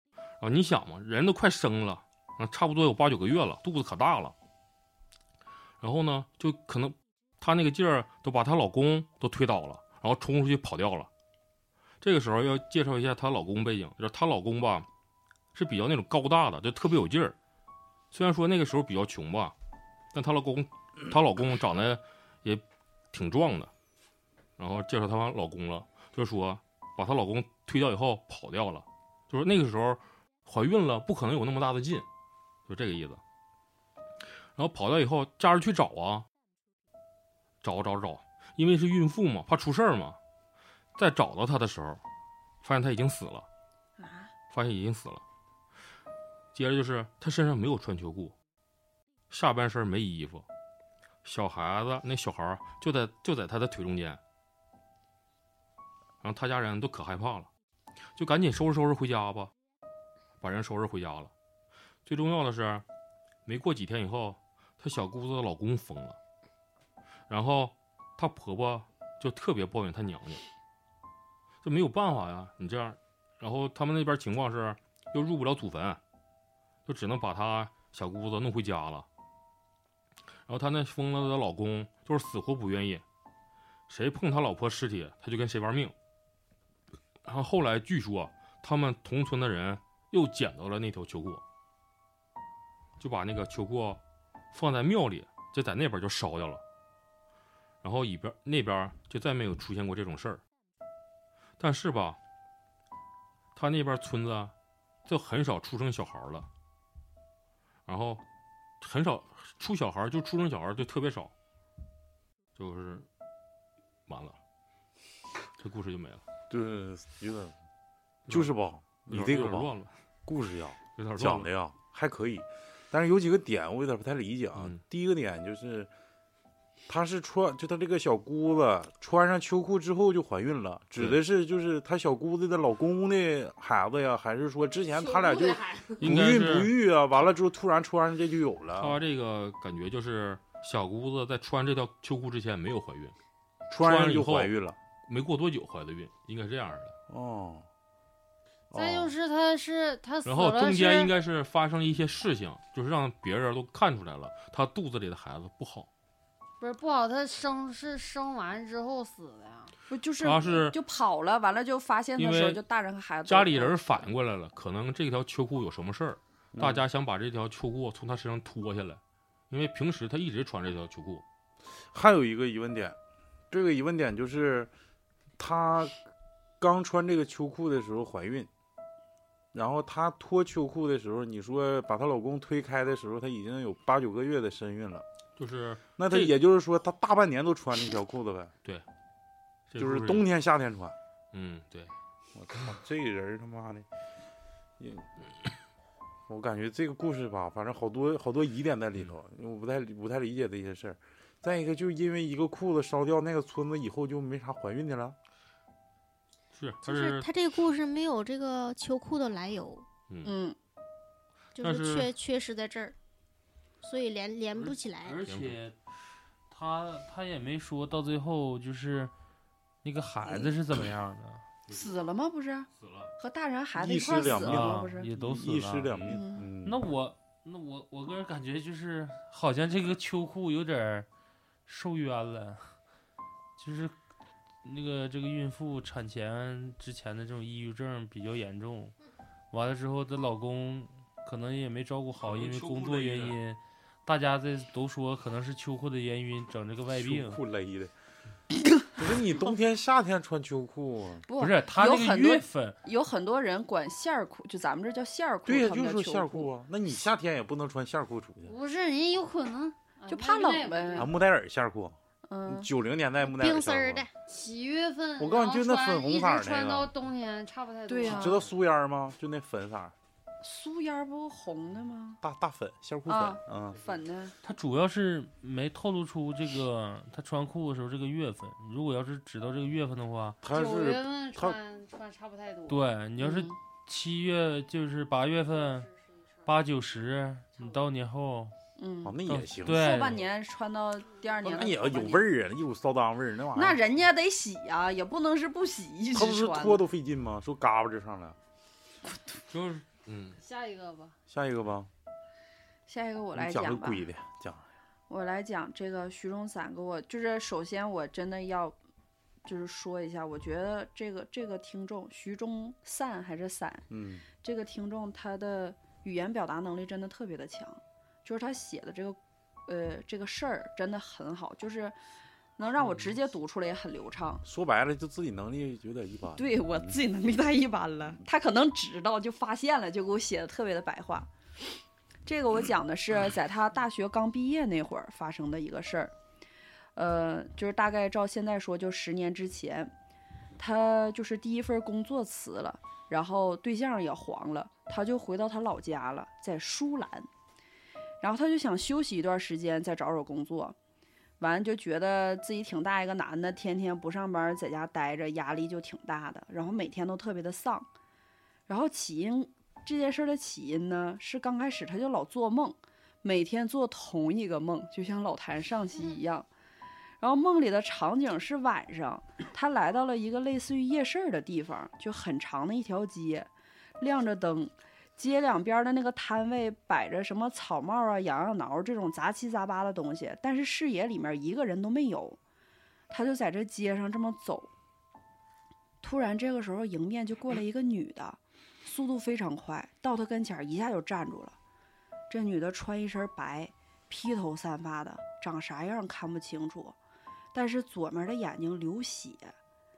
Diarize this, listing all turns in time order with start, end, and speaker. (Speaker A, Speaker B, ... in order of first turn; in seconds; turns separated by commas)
Speaker A: 0.4-4.3, Speaker A: 5.8-11.1, Speaker A: 12.0-14.9, Speaker A: 15.5-17.4, Speaker A: 18.1-19.5, Speaker A: 20.1-23.7, Speaker A: 24.6-32.1, Speaker A: 32.7-33.2, Speaker A: 34.6-36.3, Speaker A: 37.6-40.2, Speaker A: 41.0-42.0, Speaker A: 42.6-43.5, Speaker B: 44.0-44.3, Speaker A: 44.5-45.2, Speaker A: 46.5-48.3, Speaker A: 49.3-50.5, Speaker A: 51.2-54.2, Speaker A: 56.2-57.5, Speaker A: 58.2-59.5, Speaker A: 60.4-61.3, Speaker A: 62.1-62.8, Speaker A: 63.5-66.2, Speaker A: 67.3-70.4, Speaker A: 71.6-76.0, Speaker A: 76.9-79.1, Speaker A: 80.5-83.0, Speaker A: 83.9-85.9, Speaker A: 87.2-91.4, Speaker A: 93.0-94.0, Speaker A: 94.5-96.6, Speaker A: 97.8-100.4, Speaker A: 101.6-102.2, Speaker A: 103.6-104.5, Speaker A: 105.1-106.5, Speaker A: 107.9-108.2, Speaker A: 108.8-111.3, Speaker A: 112.6-113.1, Speaker A: 114.1-114.4, Speaker A: 115.6-116.2, Speaker C: 116.5-117.5, Speaker A: 118.3-118.5, Speaker C: 118.3-119.7, Speaker A: 119.1-119.9, Speaker C: 120.3-125.9, Speaker A: 121.0-121.5, Speaker A: 124.5-124.8, Speaker C: 126.9-139.0, Speaker D: 134.9-136.0, Speaker A: 136.0-136.7, Speaker A: 138.8-143.2, Speaker C: 143.7-144.8, Speaker A: 143.8-146.9, Speaker C: 147.1-147.7, Speaker C: 148.7-149.1, Speaker D: 148.7-151.1, Speaker A: 150.2-155.9, Speaker D: 156.6-159.7, Speaker B: 159.9-164.1, Speaker A: 160.2-160.8, Speaker A: 162.2-162.6, Speaker A: 163.3-171.2, Speaker C: 166.6-166.8, Speaker C: 171.9-173.0, Speaker C: 173.5-174.7, Speaker C: 175.4-176.0, Speaker C: 176.6-178.5, Speaker C: 179.5-185.1, Speaker A: 185.4-186.3, Speaker C: 186.0-188.5, Speaker A: 189.7-190.3, Speaker C: 189.8-190.9, Speaker A: 191.3-191.9, Speaker C: 192.4-193.9, Speaker C: 194.8-195.1, Speaker C: 196.3-205.2, Speaker A: 206.5-207.3, Speaker E: 206.8-209.9, Speaker B: 210.2-210.6, Speaker E: 211.6-213.0, Speaker A: 211.6-212.1, Speaker E: 213.8-215.2, Speaker F: 214.5-215.8, Speaker A: 215.2-215.6, Speaker F: 216.5-219.1, Speaker F: 219.8-221.4, Speaker B: 221.7-225.1, Speaker A: 222.8-223.1, Speaker C: 223.8-226.8, Speaker F: 224.3-231.1, Speaker B: 226.1-226.5, Speaker F: 231.7-232.8, Speaker F: 233.6-233.9, Speaker F: 234.6-239.0, Speaker F: 239.5-247.4, Speaker A: 242.2-243.4, Speaker C: 246.9-247.9, Speaker C: 249.0-251.3, Speaker B: 251.3-256.5, Speaker F: 251.4-252.8, Speaker C: 255.5-258.6, Speaker D: 258.4-261.1, Speaker B: 260.1-261.1, Speaker C: 261.0-264.1, Speaker B: 262.3-262.7, Speaker E: 263.2-264.1, Speaker D: 264.2-268.4, Speaker C: 265.2-266.9, Speaker B: 267.9-268.4, Speaker C: 268.1-269.9, Speaker B: 270.4-272.2, Speaker C: 272.2-273.8, Speaker B: 273.1-274.4, Speaker F: 274.4-280.4, Speaker C: 280.4-281.6, Speaker D: 280.5-282.8, Speaker F: 282.7-285.9, Speaker B: 283.2-283.6, Speaker D: 285.8-286.1, Speaker F: 286.4-288.5, Speaker B: 288.8-292.3, Speaker C: 289.1-289.9, Speaker F: 289.2-290.2, Speaker C: 291.4-293.8, Speaker B: 293.5-296.8, Speaker C: 296.1-298.4, Speaker A: 299.5-300.4, Speaker D: 300.4-301.2, Speaker C: 301.3-301.9, Speaker B: 302.9-304.1, Speaker C: 303.4-304.7, Speaker B: 305.1-308.8, Speaker B: 309.4-322.0, Speaker C: 313.9-314.2, Speaker B: 322.6-324.4, Speaker C: 324.4-326.9, Speaker B: 326.4-331.3, Speaker B: 332.3-336.1, Speaker B: 337.0-339.9, Speaker B: 340.6-347.3, Speaker B: 348.2-350.8, Speaker B: 351.4-357.9, Speaker B: 358.7-366.5, Speaker B: 367.2-373.5, Speaker B: 374.0-382.4, Speaker B: 383.1-384.7, Speaker B: 386.0-391.6, Speaker B: 392.3-397.0, Speaker B: 397.5-399.6